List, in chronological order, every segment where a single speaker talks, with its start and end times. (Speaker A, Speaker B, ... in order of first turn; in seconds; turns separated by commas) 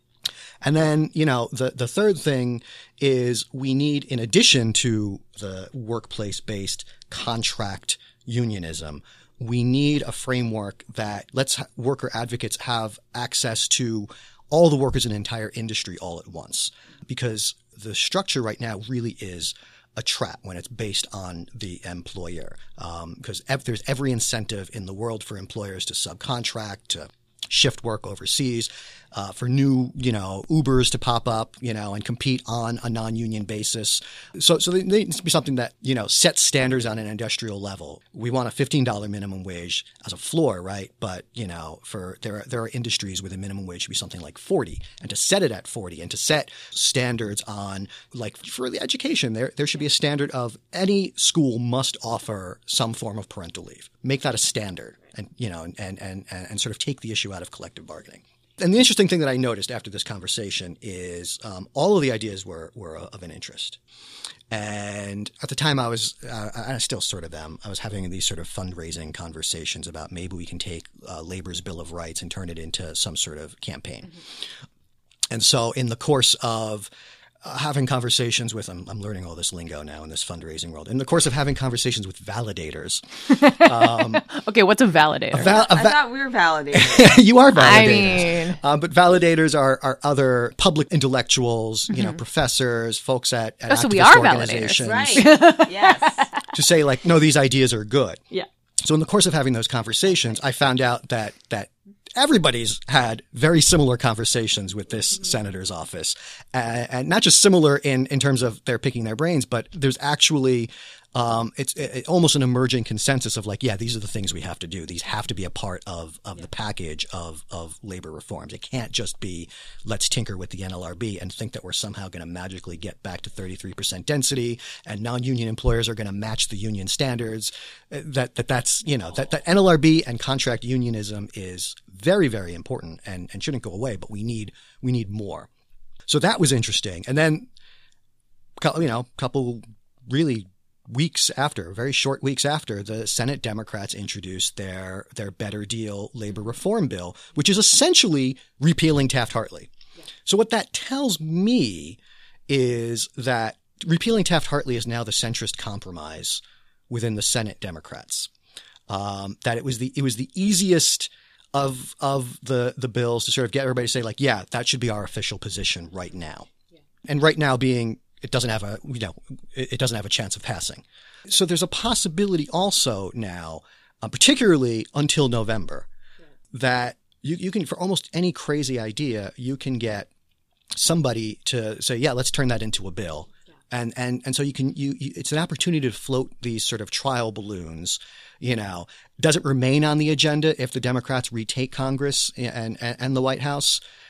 Speaker A: 0.6-63.8, Speaker A: 64.5-74.2, Speaker A: 75.3-76.9, Speaker A: 77.4-84.3, Speaker B: 83.5-85.6, Speaker A: 85.3-86.0, Speaker C: 85.4-87.2, Speaker A: 86.7-95.3, Speaker B: 87.5-88.6, Speaker C: 87.7-88.3, Speaker B: 91.9-92.2, Speaker B: 93.7-96.4, Speaker C: 94.8-96.2, Speaker A: 96.5-98.2, Speaker A: 98.8-135.5, Speaker A: 136.1-137.5, Speaker A: 138.6-149.7, Speaker A: 150.2-158.3, Speaker A: 158.9-166.5, Speaker A: 167.1-175.9, Speaker A: 176.5-180.1, Speaker A: 180.7-193.8